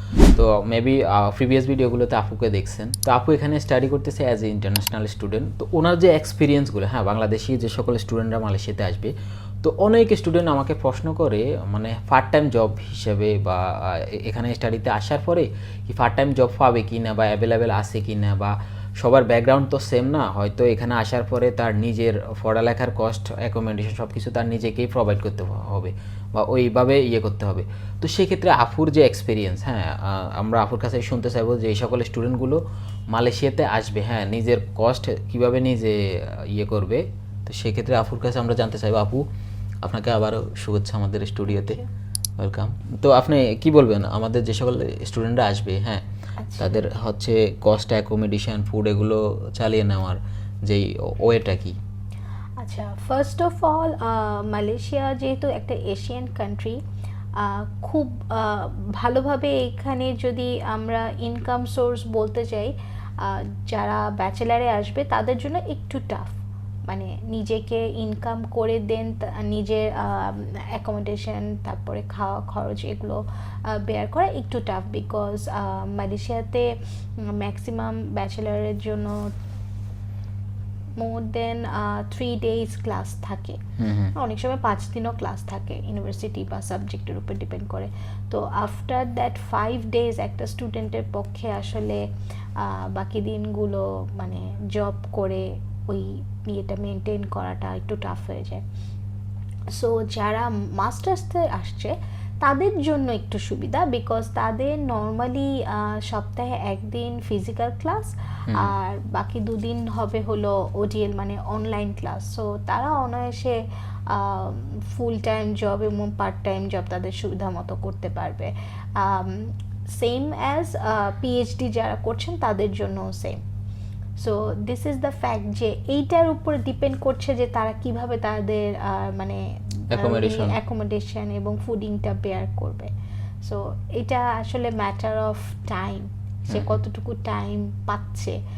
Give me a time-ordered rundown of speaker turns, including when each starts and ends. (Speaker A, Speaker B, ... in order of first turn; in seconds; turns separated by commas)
Speaker A: 0.3-39.2, Speaker A: 39.8-41.8, Speaker B: 41.5-41.9, Speaker A: 42.4-46.0, Speaker B: 46.4-46.9, Speaker A: 46.6-51.8, Speaker B: 52.6-56.8, Speaker B: 57.4-76.7, Speaker B: 77.2-79.2, Speaker B: 81.0-83.6, Speaker A: 83.8-84.1, Speaker B: 84.2-92.0, Speaker B: 92.6-98.6, Speaker B: 99.7-123.4, Speaker A: 108.5-108.7, Speaker B: 124.2-132.9, Speaker A: 129.9-130.6, Speaker B: 133.4-138.4, Speaker A: 136.5-136.8